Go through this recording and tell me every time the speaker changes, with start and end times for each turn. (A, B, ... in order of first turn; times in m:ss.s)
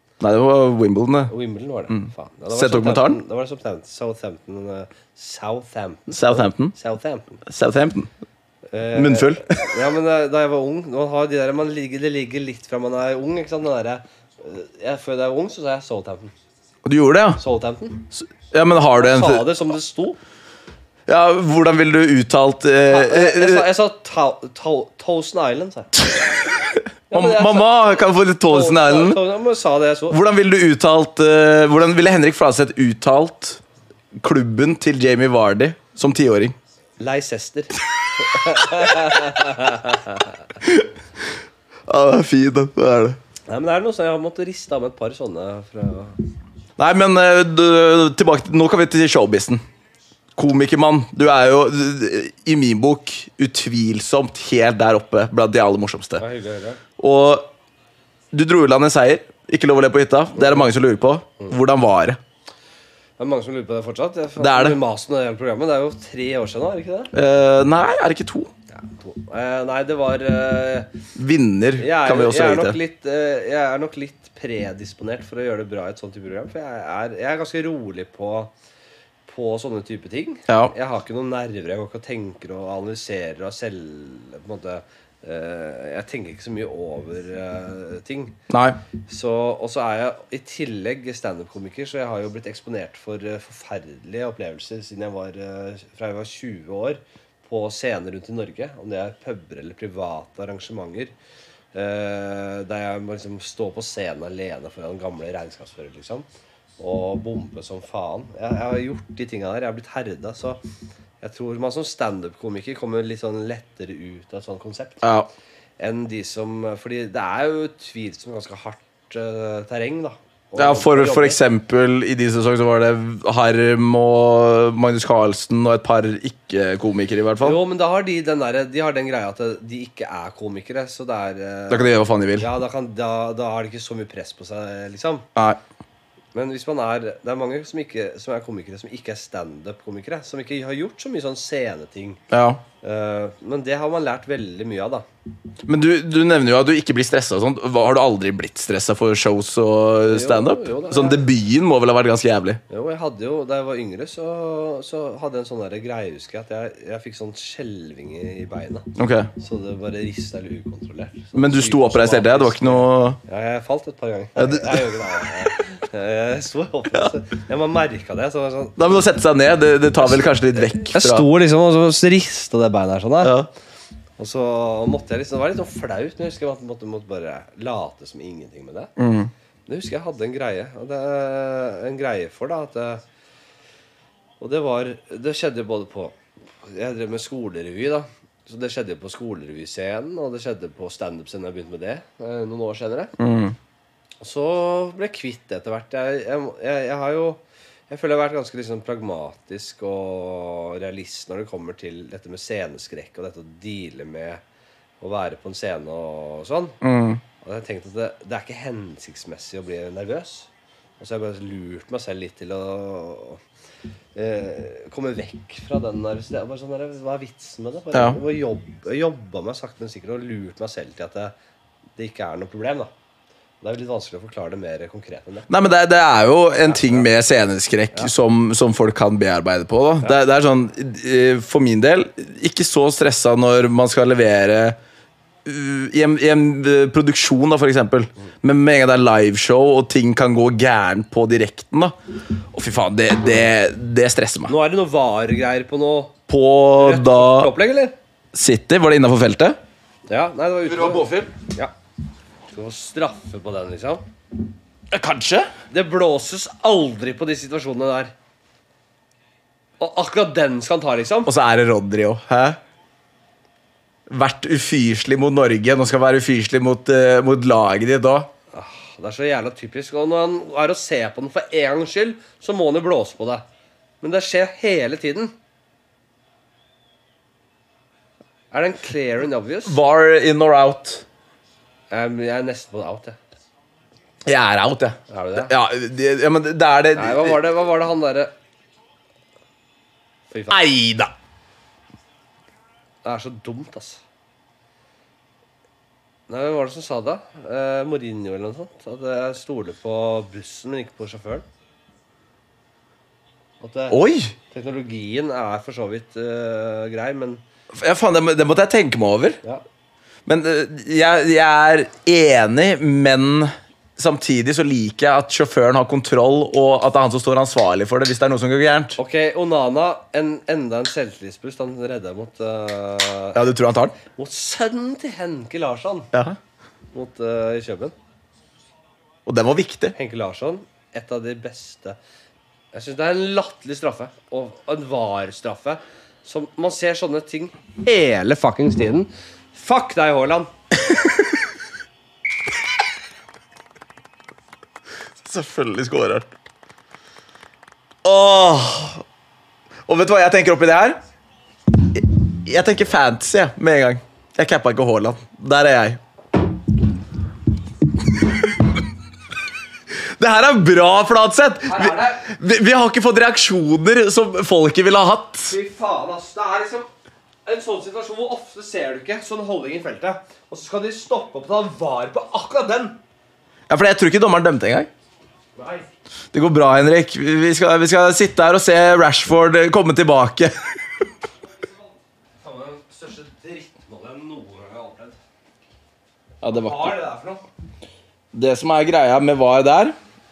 0:00.2-0:01.3 A
0:01.3-0:07.4 B
0:01.9-0:03.2 A
0:06.1-0:06.8 A
0:07.5-0:08.1 A
0:08.7-0:16.3 B
0:08.9-0:09.7 A
0:16.8-0:17.4 A
0:17.4-0:18.1 B
0:18.1-0:19.5 A
0:19.0-0:20.2 B
0:21.1-0:23.7 A
0:22.9-0:26.1 B
0:26.5-0:29.2 A
0:27.1-0:27.8 B
0:28.5-0:30.2 B
0:30.1-0:33.6 A
0:34.2-0:36.6 A
0:37.0-0:40.4 B
0:40.6-0:40.9 A
0:41.9-0:43.2 A
0:43.5-0:46.2 B
0:46.8-0:49.6 A
0:50.4-0:56.2 A
0:56.2-0:56.8 B
0:57.0-0:57.5 A
0:58.3-1:02.2 A
1:00.4-1:00.7 B
1:03.2-1:07.1 B
1:04.4-1:04.8 A
1:07.1-1:08.5 A
1:08.7-1:10.9 B
1:11.2-1:12.8 A
1:11.8-1:18.5 B
1:19.3-1:28.4 B
1:20.5-1:20.7 A
1:28.5-1:28.8 A
1:29.1-1:41.1 B
1:41.7-1:46.3 B
1:46.8-1:50.6 B
1:51.2-1:55.0 B
1:55.0-1:55.3 A
1:55.8-2:01.4 B
2:00.6-2:07.6 A
2:07.4-2:15.3 B
2:11.7-2:12.5 A
2:15.4-2:15.6 A
2:16.3-2:22.2 B
2:22.3-2:22.6 A
2:22.8-2:25.0 B
2:25.7-2:32.6 A
2:30.1-2:31.3 B
2:32.7-2:49.0 B
2:39.0-2:39.3 A
2:41.4-2:43.2 A
2:44.4-2:45.0 A
2:48.8-2:51.3 A
2:50.0-2:53.4 B
2:53.2-2:53.5 A
2:54.2-2:58.9 B
2:59.0-2:59.3 A
2:59.7-3:03.0 B
3:04.4-3:13.2 B
3:13.2-3:13.6 A
3:14.2-3:24.4 B
3:25.0-3:26.8 B
3:26.8-3:27.2 A
3:27.4-3:30.5 B
3:31.0-3:33.4 B
3:34.2-3:41.4 B
3:37.9-3:38.2 A
3:42.0-3:42.9 B
3:43.6-3:45.5 B
3:45.5-3:54.8 A
3:46.7-3:47.1 B
3:55.4-4:02.0 A
4:02.5-4:04.5 A
4:04.5-4:06.2 B
4:06.3-4:07.5 A
4:06.8-4:08.0 B
4:08.3-4:09.6 A
4:10.1-4:11.7 B
4:10.7-4:11.3 A
4:12.5-4:14.0 B
4:14.9-4:15.5 A
4:15.7-4:18.1 B
4:19.8-4:21.3 B
4:21.3-4:22.6 A
4:24.1-4:28.3 A
4:28.5-4:33.4 B
4:34.0-4:35.3 B
4:38.5-4:39.8 B
4:39.7-4:41.0 A
4:41.9-4:43.2 B
4:44.2-4:47.4 A
4:45.1-4:45.5 B
4:47.0-4:48.3 B
4:50.3-4:50.6 B
4:50.5-4:51.1 A
4:53.0-4:54.0 B
4:56.3-5:01.5 B
5:03.6-5:07.4 B
5:03.9-5:04.4 A
5:07.7-5:09.4 A
5:10.3-5:19.0 A
5:19.0-5:23.4 B
5:23.4-5:24.0 A
5:24.2-5:26.1 B
5:26.1-5:26.4 A
5:26.9-5:27.9 B
5:29.3-5:29.9 A
5:30.0-5:32.0 B
5:32.7-5:40.5 B
5:45.2-5:46.3 A
5:48.0-5:49.0 A
5:49.9-5:51.0 A
5:51.8-5:56.0 A
5:58.2-5:58.6 A
5:59.9-6:05.5 A
6:01.7-6:02.2 B
6:05.5-6:06.9 B
6:07.5-6:13.0 B
6:13.7-6:14.9 A
6:15.6-6:15.9 B
6:16.3-6:20.7 A
6:22.4-6:25.2 B
6:26.4-6:27.0 A
6:26.5-6:27.4 B
6:28.3-6:30.0 A